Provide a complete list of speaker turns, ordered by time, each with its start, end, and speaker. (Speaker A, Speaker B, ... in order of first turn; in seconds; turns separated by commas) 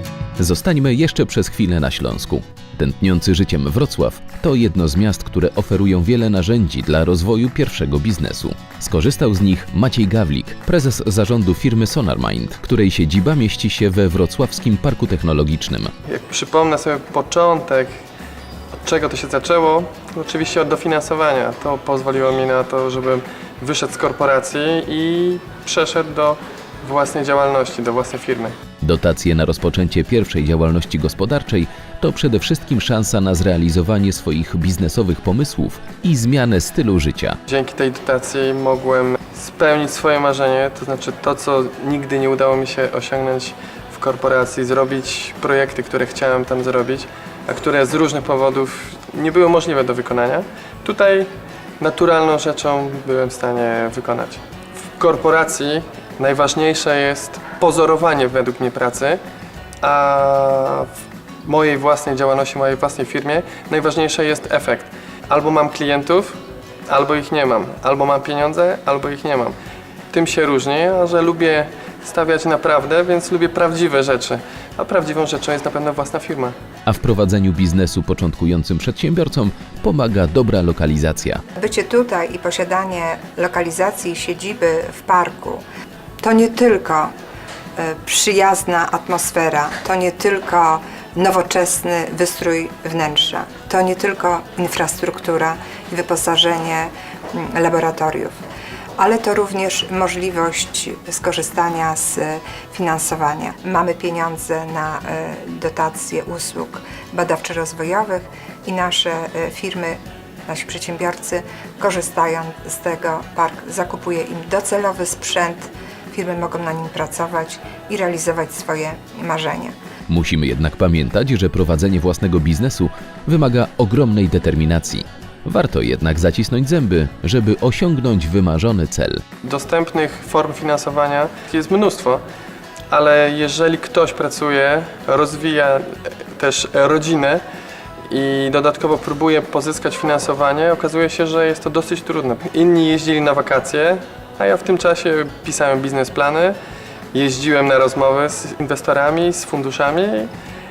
Speaker A: 0.4-15.9, Speaker B: 16.1-17.9, Speaker B: 18.7-28.5, Speaker A: 28.8-37.4, Speaker B: 37.5-54.4, Speaker B: 55.0-59.2, Speaker B: 59.8-60.9, Speaker B: 61.4-69.5, Speaker B: 70.1-76.5, Speaker A: 76.8-81.4, Speaker C: 81.5-85.6, Speaker C: 86.2-87.1, Speaker C: 87.8-98.3, Speaker C: 99.0-119.7, Speaker A: 120.1-129.2, Speaker B: 129.4-132.2, Speaker B: 132.9-137.4, Speaker B: 138.1-146.6, Speaker B: 147.1-150.3